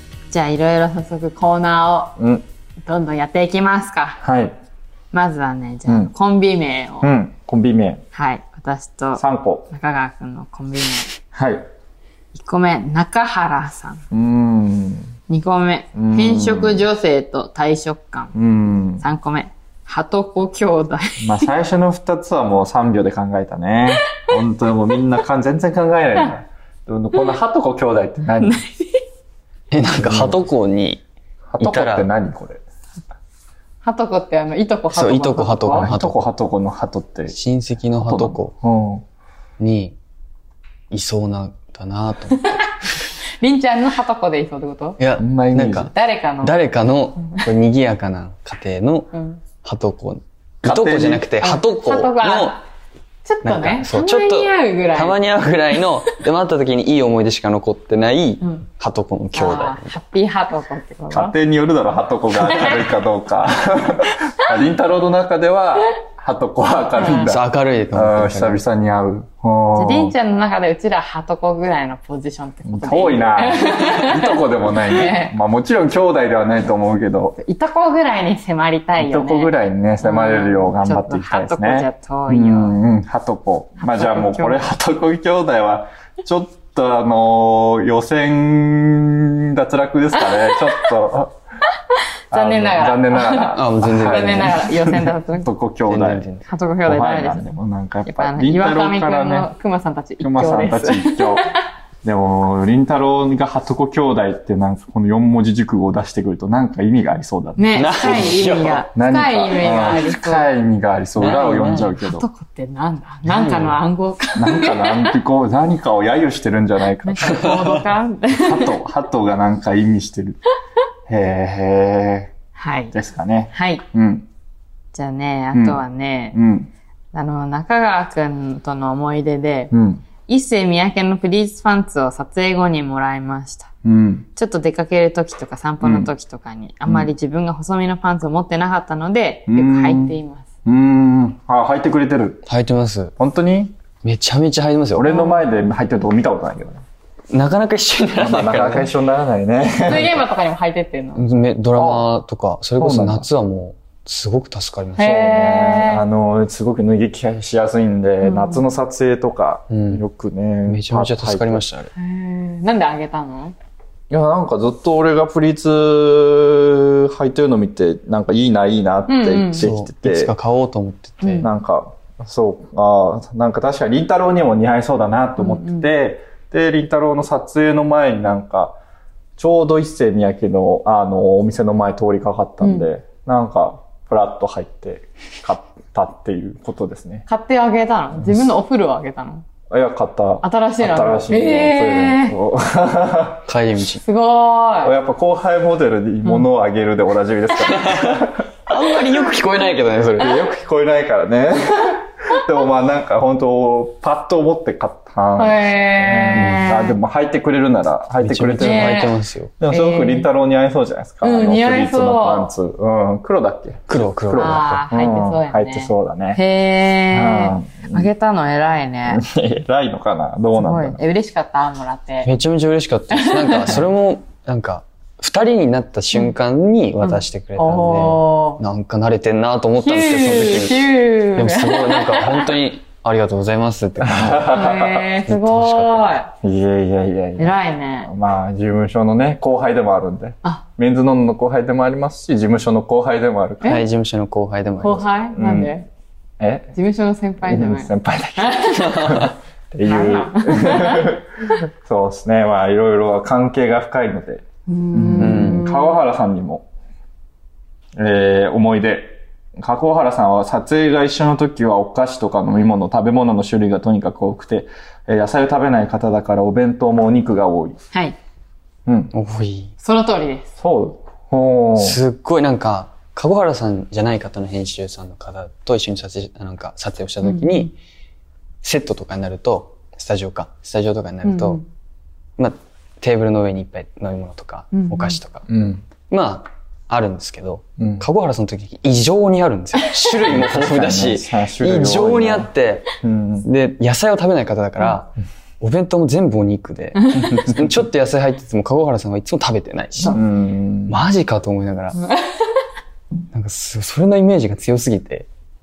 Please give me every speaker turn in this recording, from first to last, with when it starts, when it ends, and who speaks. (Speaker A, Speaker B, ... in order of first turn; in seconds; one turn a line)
Speaker A: 0.3-2.2
Speaker B: 2.2-2.5
Speaker A: 2.9-4.2
Speaker B: 4.2-4.6
Speaker A: 5.1-7.1
Speaker B: 7.0-8.0
Speaker A: 8.1-11.2
Speaker B: 9.2-9.7
Speaker B: 11.3-11.7
Speaker A: 12.3-14.0
Speaker B: 14.1-15.2
Speaker A: 15.3-18.4
Speaker B: 16.0-16.9
Speaker B: 18.4-19.0
Speaker A: 19.0-21.5
Speaker B: 21.2-28.6
Speaker A: 28.4-29.0
Speaker C: 29.7-31.0
Speaker B: 30.0-30.4
Speaker B: 31.5-32.6
Speaker C: 31.6-32.1
Speaker A: 33.8-35.9
Speaker C: 34.9-36.3
Speaker B: 35.7-37.4
Speaker C: 37.3-38.5
Speaker B: 38.0-39.0
Speaker C: 39.6-40.0
Speaker C: 40.9-42.7
Speaker A: 42.3-42.7
Speaker A: 43.4-45.0
Speaker C: 45.0-49.1
Speaker B: 45.2-45.9
Speaker A: 45.9-46.6
Speaker A: 49.1-49.4
Speaker C: 49.6-52.6
Speaker B: 50.6-51.3
Speaker A: 51.4-52.6
Speaker A: 53.2-55.2
Speaker C: 53.4-60.0
Speaker A: 59.3-61.4
Speaker B: 61.1-70.1
Speaker A: 62.5-62.9
Speaker A: 67.0-67.3
Speaker C: 67.0-68.6
Speaker A: 69.8-75.4
Speaker B: 72.7-77.4
Speaker A: 77.4-82.8
Speaker B: 79.0-91.3
Speaker A: 83.8-84.7
Speaker A: 90.3-90.6
Speaker A: 92.3-95.5
Speaker B: 92.3-96.3
Speaker C: 93.5-94.6
Speaker C: 95.9-96.5
Speaker A: 96.5-97.5
Speaker B: 96.8-99.5
Speaker A: 98.1-101.6
Speaker B: 100.2-101.5
Speaker B: 102.0-108.4
Speaker A: 107.6-110.5
Speaker C: 107.8-108.8
Speaker B: 109.0-112.3
Speaker C: 111.2-111.9
Speaker A: 111.6-115.2
Speaker C: 113.3-113.8
Speaker B: 114.4-117.8
Speaker A: 117.0-118.8
Speaker C: 117.2-117.8
Speaker B: 118.3-120.4
Speaker B: 121.1-122.3
Speaker A: 122.6-123.0
Speaker B: 122.9-124.3
Speaker A: 123.5-123.8
Speaker A: 124.9-126.4
Speaker B: 125.5-125.8
Speaker B: 126.3-126.7
Speaker A: 127.1-129.7
Speaker B: 129.7-130.0
Speaker A: 130.3-133.7
Speaker B: 133.8-134.3
Speaker A: 134.4-140.5
Speaker B: 135.8-136.1
Speaker B: 139.5-142.4
Speaker C: 142.5-143.1
Speaker B: 143.2-143.8
Speaker C: 144.0-145.3
Speaker B: 145.0-146.8
Speaker A: 145.1-145.5
Speaker C: 147.3-148.9
Speaker B: 148.2-150.2
Speaker A: 149.8-151.3
Speaker C: 151.2-155.2
Speaker B: 151.8-152.1
Speaker B: 152.8-153.3
Speaker A: 155.0-156.0
Speaker B: 155.0-161.6
Speaker A: 158.2-158.6
Speaker C: 159.7-160.0
Speaker C: 160.7-161.9
Speaker A: 162.0-163.6
Speaker B: 164.1-170.3
Speaker A: 169.1-169.7
Speaker C: 169.5-171.5
Speaker A: 171.2-171.5
Speaker B: 171.4-178.8
Speaker A: 175.4-175.9
Speaker B: 179.4-187.2
Speaker A: 182.6-182.9
Speaker A: 187.3-189.4
Speaker B: 188.2-188.5
Speaker B: 189.7-193.4
Speaker A: 190.4-192.4
Speaker C: 193.5-194.0
Speaker A: 194.0-194.9
Speaker B: 194.8-198.5
Speaker C: 197.7-200.4
Speaker B: 200.2-216.4
Speaker A: 205.4-207.0
Speaker C: 206.3-206.7
Speaker C: 208.2-209.5
Speaker A: 208.6-209.2
Speaker A: 209.7-210.3
Speaker A: 211.2-212.5
Speaker C: 213.9-214.8
Speaker A: 214.4-219.2
Speaker B: 217.1-218.1
Speaker B: 219.1-221.0
Speaker A: 220.6-222.3
Speaker C: 222.2-234.6
Speaker A: 223.1-223.8
Speaker A: 227.0-228.6
Speaker A: 229.8-232.5
Speaker B: 234.0-235.1
Speaker A: 234.5-236.3
Speaker C: 235.3-236.2
Speaker B: 236.4-243.8
Speaker A: 237.4-238.1
Speaker C: 243.6-245.1
Speaker A: 244.8-245.9
Speaker B: 245.3-245.8
Speaker B: 246.4-246.7
Speaker A: 246.8-249.3
Speaker B: 247.4-256.6
Speaker A: 249.9-251.2
Speaker A: 254.7-256.1
Speaker C: 255.2-255.6
Speaker B: 258.0-267.8
Speaker B: 268.9-269.1
Speaker C: 269.1-269.7
Speaker A: 269.8-270.5
Speaker B: 270.6-272.0
Speaker C: 271.8-277.7
Speaker A: 277.2-277.7
Speaker C: 278.6-281.6
Speaker A: 281.2-281.6
Speaker C: 282.4-285.5
Speaker A: 284.7-285.2
Speaker B: 285.5-285.8
Speaker C: 286.1-300.2
Speaker B: 287.8-288.1
Speaker B: 290.2-292.5
Speaker B: 293.0-293.5
Speaker A: 297.0-297.4
Speaker B: 300.0-301.0
Speaker C: 300.9-302.0
Speaker A: 302.0-302.5
Speaker C: 303.3-305.3